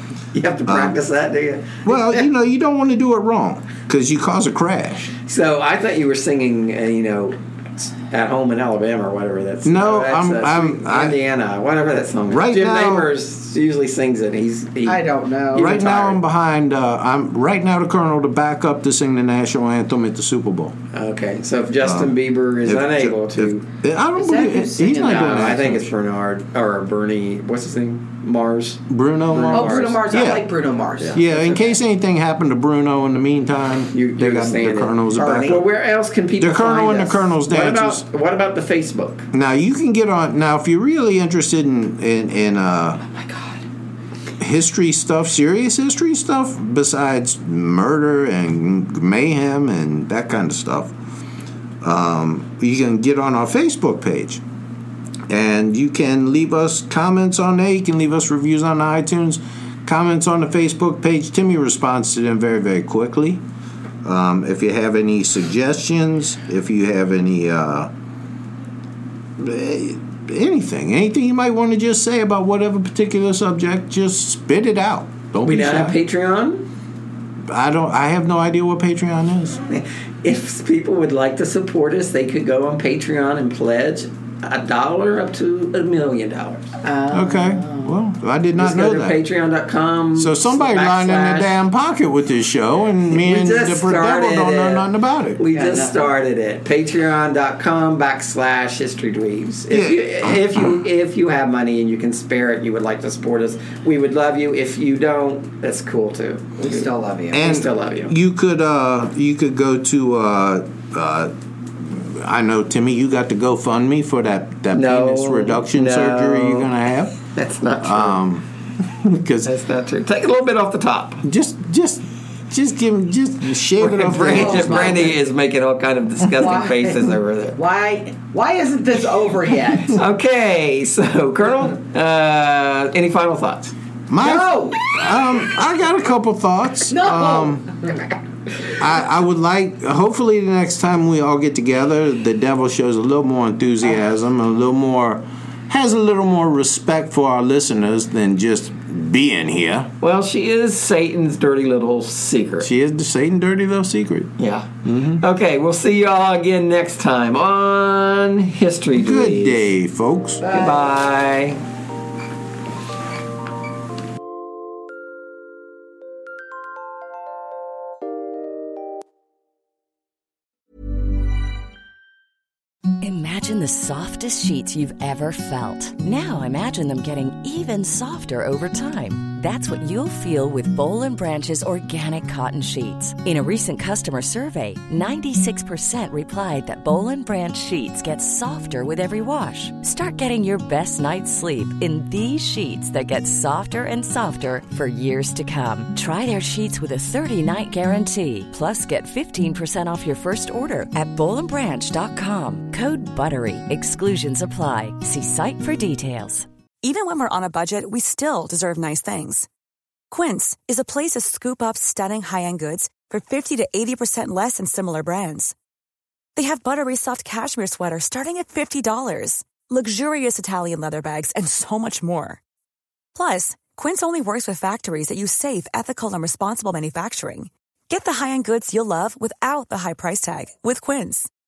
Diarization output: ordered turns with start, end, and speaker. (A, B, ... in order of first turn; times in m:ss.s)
0:00.3-0:02.2 A
0:00.7-0:01.0 B
0:01.8-0:05.1 B
0:05.2-0:16.2 A
0:09.6-0:11.2 B
0:12.3-0:13.1 B
0:14.8-0:15.8 C
0:15.5-0:20.7 B
0:20.9-0:23.6 A
0:21.8-0:25.9 B
0:24.1-0:25.6 C
0:24.9-0:30.0 A
0:28.9-0:30.4 B
0:29.5-0:31.8 C
0:31.1-0:35.6 B
0:33.9-0:39.3 A
0:35.2-0:35.5 C
0:36.4-0:38.0 B
0:39.3-0:43.0 B
0:44.4-0:50.9 B
0:51.8-0:54.4 B
0:55.3-1:03.4 B
1:04.0-1:07.9 B
1:09.4-1:16.0 B
1:15.4-1:16.6 A
1:17.5-1:19.6 B
1:19.7-1:26.7 A
1:26.8-1:28.0 C
1:27.1-1:29.2 B
1:28.6-1:31.6 A
1:30.2-1:35.4 B
1:33.1-1:34.8 A
1:35.4-1:48.1 A
1:35.5-1:36.0 C
1:39.7-1:40.7 B
1:46.6-1:47.6 C
1:47.3-1:57.2 B
1:54.7-1:56.7 A
1:57.3-1:58.2 A
1:57.8-1:59.5 B
1:59.4-2:01.2 A
2:01.2-2:05.1 B
2:03.8-2:07.6 A
2:04.2-2:05.2 C
2:06.3-2:10.0 C
2:09.8-2:13.7 A
2:14.1-2:17.7 B
2:14.2-2:14.8 C
2:16.9-2:18.1 C
2:18.8-2:29.9 B
2:30.0-2:32.7 A
2:32.6-2:34.3 B
2:34.4-2:39.7 A
2:38.9-2:40.4 B
2:40.4-2:40.8 C
2:40.4-2:41.6 A
2:53.0-3:26.5 D
3:26.8-3:29.5 E
3:30.1-3:35.5 E
3:36.4-3:42.4 E
3:43.1-3:51.3 E